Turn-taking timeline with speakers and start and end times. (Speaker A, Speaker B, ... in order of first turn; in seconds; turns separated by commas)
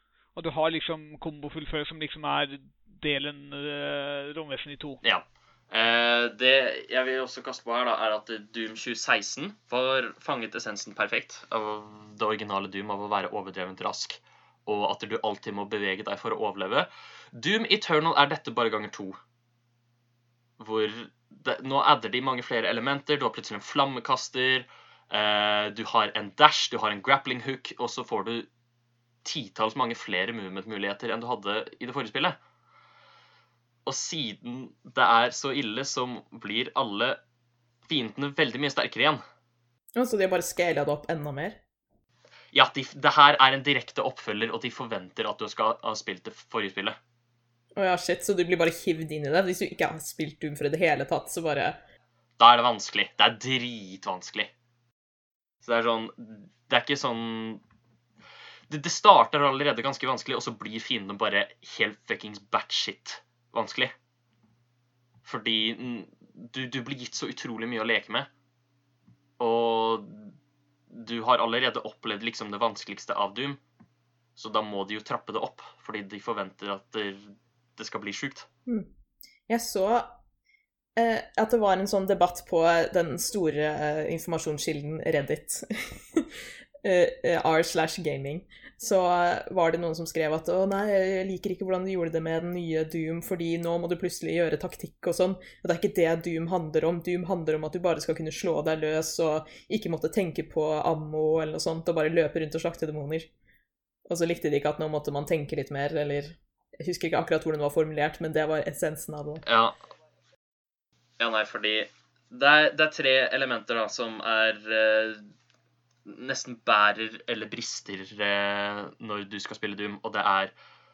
Speaker A: 0.3-5.0, Speaker B: 5.0-19.2, Speaker B: 20.6-28.5, Speaker B: 29.2-32.4, Speaker B: 33.9-37.2, Speaker B: 37.9-39.2, Speaker C: 40.0-41.6, Speaker B: 42.5-47.0, Speaker C: 47.8-51.8, Speaker B: 52.4-54.5, Speaker B: 55.6-57.6, Speaker B: 58.7-63.9, Speaker B: 65.2-68.3, Speaker B: 69.4-70.3, Speaker B: 70.9-73.6, Speaker B: 74.3-78.5, Speaker C: 79.5-80.2, Speaker C: 81.0-103.3, Speaker C: 104.0-109.4, Speaker B: 109.5-109.8, Speaker B: 111.2-115.3, Speaker B: 116.0-120.5